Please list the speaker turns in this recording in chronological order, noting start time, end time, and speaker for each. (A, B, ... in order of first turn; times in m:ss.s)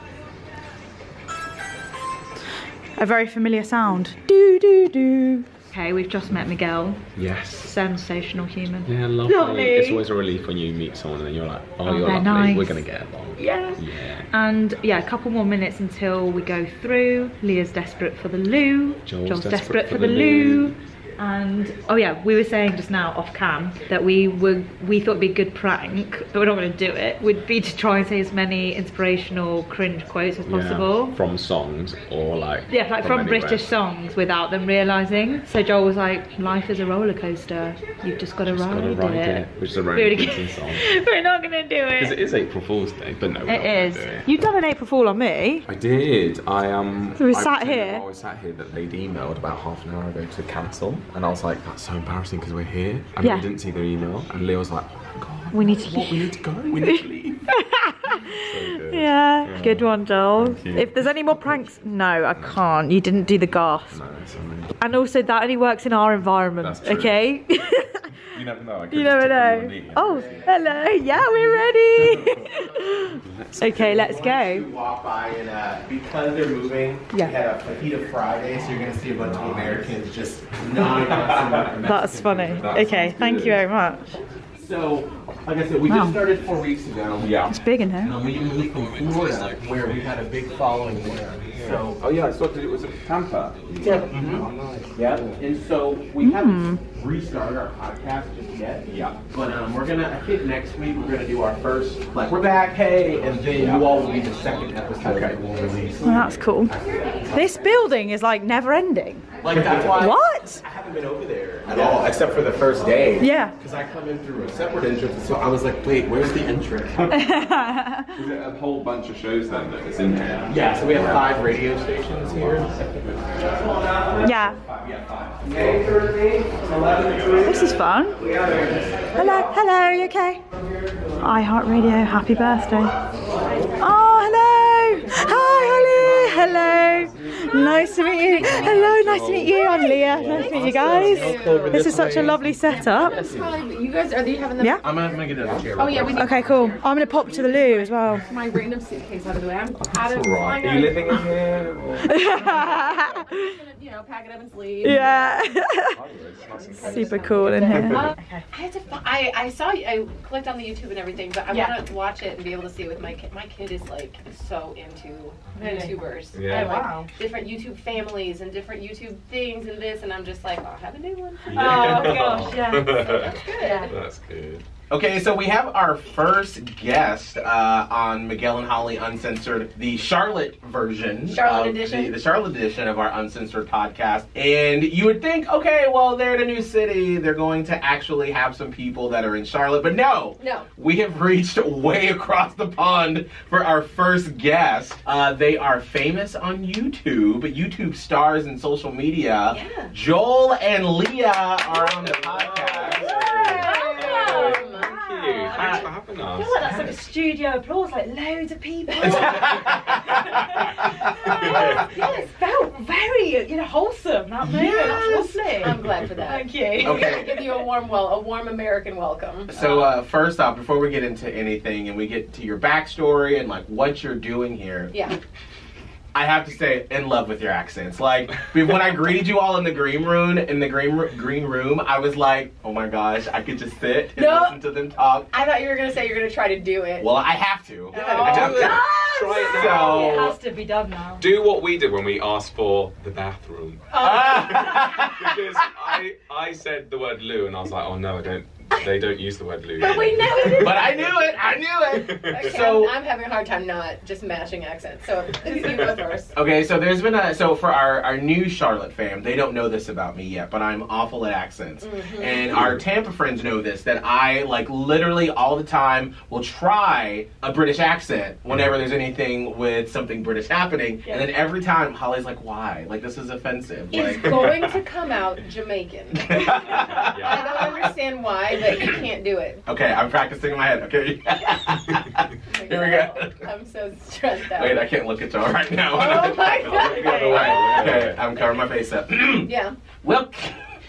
0:03.0-0:07.0 A
0:07.2-0:07.8 B
0:07.6-0:10.0 A
0:08.9-0:14.3 B
0:11.8-0:12.8 A
0:13.4-0:31.2 A
0:19.0-0:20.8 B
0:30.4-0:33.7 B
0:32.7-0:42.2 A
0:38.5-0:40.8 B
0:42.0-0:44.3 B
0:43.5-0:45.7 A
0:45.7-0:57.4 B
0:47.2-0:48.0 A
0:53.2-0:53.5 A
0:55.5-1:04.0 A
0:58.1-1:01.7 B
1:02.3-1:02.6 B
1:03.9-1:04.8 B
1:04.8-1:08.1 A
1:06.6-1:07.2 B
1:08.2-1:10.6 B
1:08.9-1:14.6 A
1:10.0-1:10.5 C
1:11.3-1:12.4 B
1:13.2-1:13.8 B
1:13.6-1:22.8 C
1:19.3-1:19.9 B
1:21.8-1:24.2 A
1:22.6-1:23.6 B
1:24.6-1:27.5 C
1:25.9-1:26.2 A
1:27.2-1:27.6 B
1:27.5-1:28.2 A
1:28.0-1:32.0 C
1:31.6-1:35.4 B
1:33.8-1:47.8 C
1:36.2-1:36.8 A
1:38.9-1:39.2 B
1:43.6-1:43.9 B
1:45.0-1:45.4 B
1:46.0-1:46.7 A
1:47.3-1:49.2 A
1:49.4-1:57.2 C
1:50.0-1:50.6 A
1:51.7-1:52.0 D
1:53.2-1:53.6 A
1:57.0-1:57.4 B
1:57.1-1:58.1 A
1:58.1-2:01.3 B
2:00.5-2:04.5 C
2:04.2-2:04.6 A
2:05.5-2:07.2 C
2:05.5-2:06.0 B
2:07.0-2:07.4 B
2:07.4-2:08.2 A
2:08.2-2:08.7 B
2:09.2-2:10.4 A
2:11.2-2:12.9 A
2:13.8-2:23.2 A
2:18.0-2:22.2 D
2:18.6-2:19.6 B
2:20.1-2:22.4 C
2:20.1-2:20.4 B
2:21.7-2:22.3 B
2:22.8-2:31.3 D
2:23.0-2:23.4 C
2:24.8-2:26.4 C
2:26.1-2:28.3 A
2:29.8-2:32.7 B
2:32.1-2:33.5 A
2:32.3-2:35.3 D
2:34.8-2:36.0 A
2:34.8-2:38.1 B
2:36.5-2:54.0 D
2:36.8-2:38.4 A
2:45.6-2:47.1 A
2:46.3-2:46.8 B
2:51.5-2:53.9 A
2:51.5-2:54.6 B
2:54.9-3:23.1 C
3:01.3-3:02.2 D
3:10.4-3:10.7 D
3:19.5-3:19.9 D
3:22.0-3:26.6 B
3:22.9-3:37.4 A
3:23.0-3:25.9 D
3:28.9-3:29.4 D
3:29.0-3:30.0 C
3:31.3-3:31.8 B
3:34.4-3:35.0 C
3:34.5-3:39.9 D
3:36.8-3:37.4 C
3:39.5-3:44.9 C
3:44.9-3:45.2 D
3:46.1-3:55.3 C
3:54.2-3:54.6 D
3:55.3-3:57.2 D
3:57.0-3:58.8 C
3:57.9-3:59.5 D
3:57.9-4:01.2 A
3:58.2-4:00.2 B
3:59.4-4:00.4 C
4:01.2-4:10.9 B
4:03.9-4:05.4 C
4:04.0-4:04.9 A
4:09.8-4:11.4 D
4:10.4-4:12.9 C
4:11.9-4:12.5 B
4:12.1-4:16.4 D
4:15.5-4:15.9 B
4:16.3-4:34.4 C
4:21.8-4:22.7 D
4:22.6-4:22.8 B
4:33.9-4:39.7 D
4:34.3-4:34.7 B
4:36.2-4:37.9 C
4:36.7-4:37.8 B
4:39.7-4:43.4 C
4:42.5-4:44.9 D
4:44.5-4:49.5 C
4:45.9-4:48.5 D
4:46.6-4:48.2 B
4:46.7-4:47.8 A
4:49.4-4:49.8 D
4:50.0-4:50.6 C